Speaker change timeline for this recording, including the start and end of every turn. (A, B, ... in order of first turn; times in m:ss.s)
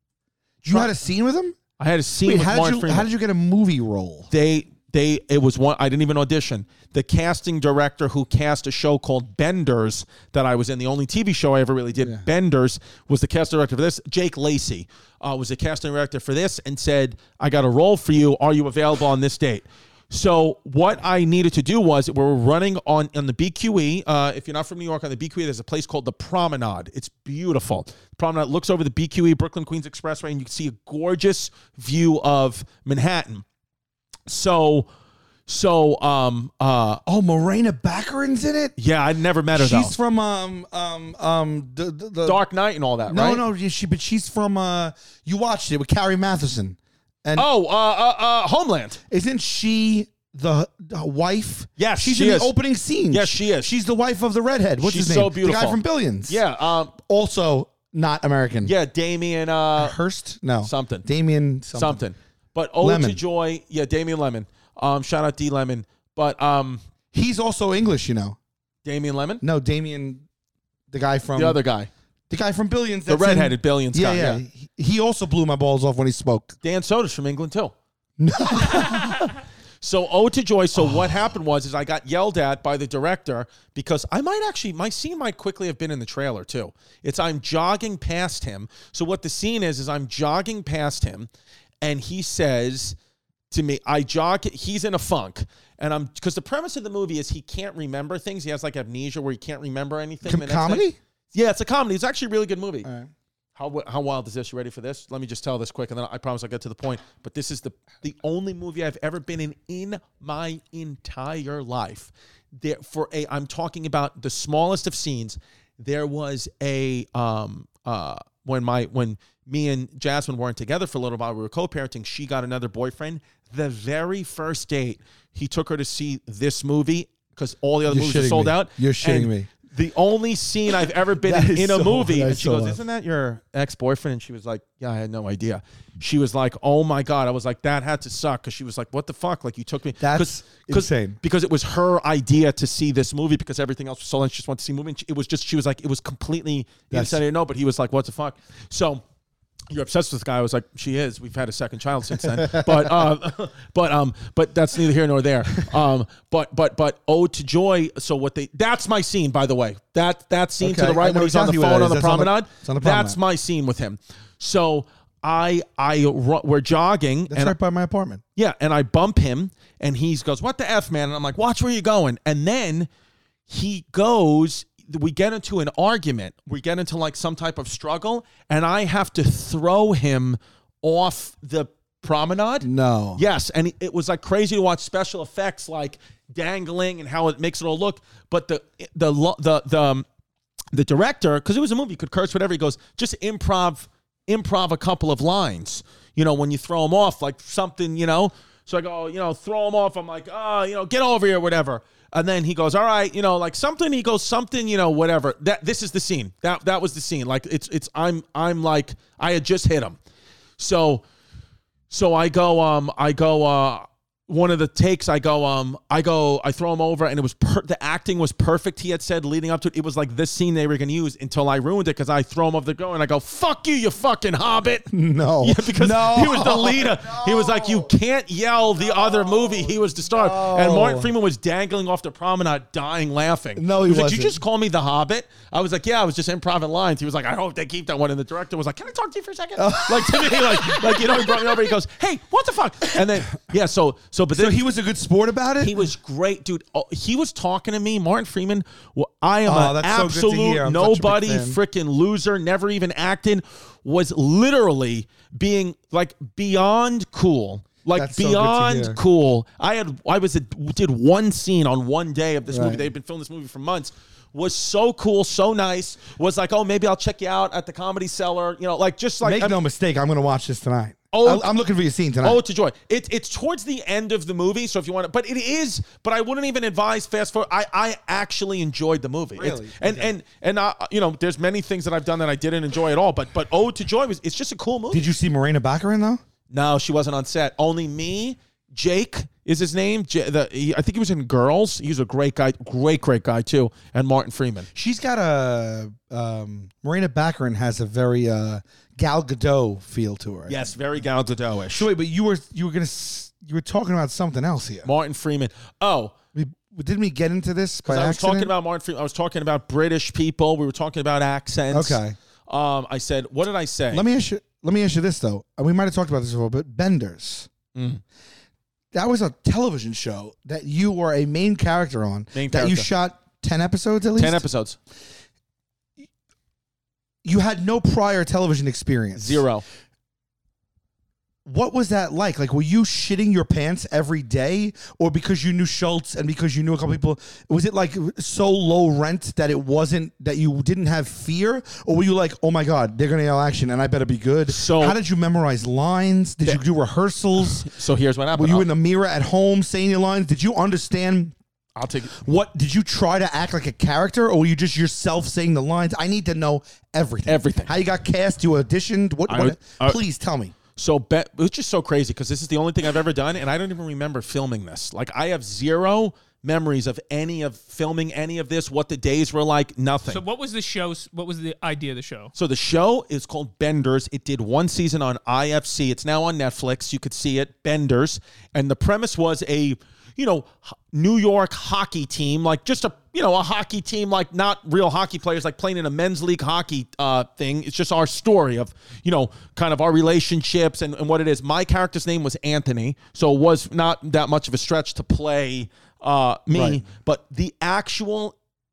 0:00.6-0:00.9 A
0:00.6-0:01.6 B
0:01.8-0:03.1 A
0:02.2-0:04.3 B
0:04.3-0:33.4 A
0:34.3-0:34.9 A
0:35.5-0:37.0 A
0:37.0-0:38.8 B
0:38.8-0:39.9 A
0:39.5-0:42.4 B
0:42.2-0:43.4 A
0:43.1-0:47.5 B
0:47.4-0:49.0 A
0:49.1-0:56.4 B
0:51.8-0:52.5 A
0:53.1-0:53.7 A
0:54.8-0:56.9 A
0:56.9-0:58.7 B
0:58.6-1:00.0 A
0:59.8-1:02.0 B
1:00.6-1:01.0 A
1:01.7-1:06.8 A
1:02.8-1:03.2 B
1:07.1-1:08.4 B
1:08.8-1:09.4 A
1:09.4-1:10.2 B
1:10.9-1:11.6 B
1:11.4-1:11.9 A
1:12.3-1:16.5 B
1:13.1-1:14.4 A
1:16.6-1:17.7 A
1:18.2-1:19.3 B
1:18.7-1:19.0 A
1:19.8-1:31.3 A
1:31.8-1:33.0 A
1:33.5-1:42.9 A
1:40.2-1:41.0 B
1:42.8-1:43.1 B
1:43.5-2:29.0 A
2:07.9-2:09.5 B
2:11.2-2:12.8 B
2:20.0-2:21.2 B
2:26.9-2:27.2 B
2:29.7-2:47.5 A
2:32.2-2:33.0 B
2:40.6-2:43.2 B
2:47.3-2:48.2 B
2:48.4-2:52.9 A
2:53.5-3:10.0 A
3:02.6-3:03.2 B
3:10.7-3:30.0 A
3:30.6-3:31.0 A
3:31.9-3:44.9 A
3:44.9-3:47.9 B
3:45.4-4:04.6 A
3:48.8-3:51.1 B
3:53.6-3:54.4 B
3:59.6-4:01.6 B
4:04.3-4:05.8 B
4:05.6-4:29.6 A
4:09.4-4:11.6 B
4:17.9-4:19.0 B
4:22.5-4:22.9 B
4:29.2-4:32.4 B
4:31.1-4:31.5 A
4:32.2-4:45.0 A
4:39.4-4:40.1 B
4:44.9-4:46.2 B
4:46.5-4:54.7 A
4:54.7-5:00.6 B
5:00.5-5:01.9 A
5:01.7-5:04.9 B
5:04.8-5:06.1 A
5:06.3-5:08.5 B
5:07.8-5:14.0 A
5:11.7-5:12.2 B
5:13.9-5:17.5 B
5:17.7-5:18.0 A
5:18.9-5:24.4 B
5:22.3-5:22.9 A
5:24.2-5:24.8 A
5:27.2-5:29.4 B
5:29.2-5:29.6 A
5:31.4-5:47.7 B
5:44.5-5:45.0 A
5:47.4-5:48.7 A
5:48.3-5:51.3 B
5:51.8-5:52.1 A
5:52.1-6:00.5 B
5:57.2-5:57.7 A
5:59.3-6:00.0 A
6:00.8-6:10.2 A
6:10.1-6:12.3 C
6:12.3-6:38.3 A
6:36.5-6:36.8 B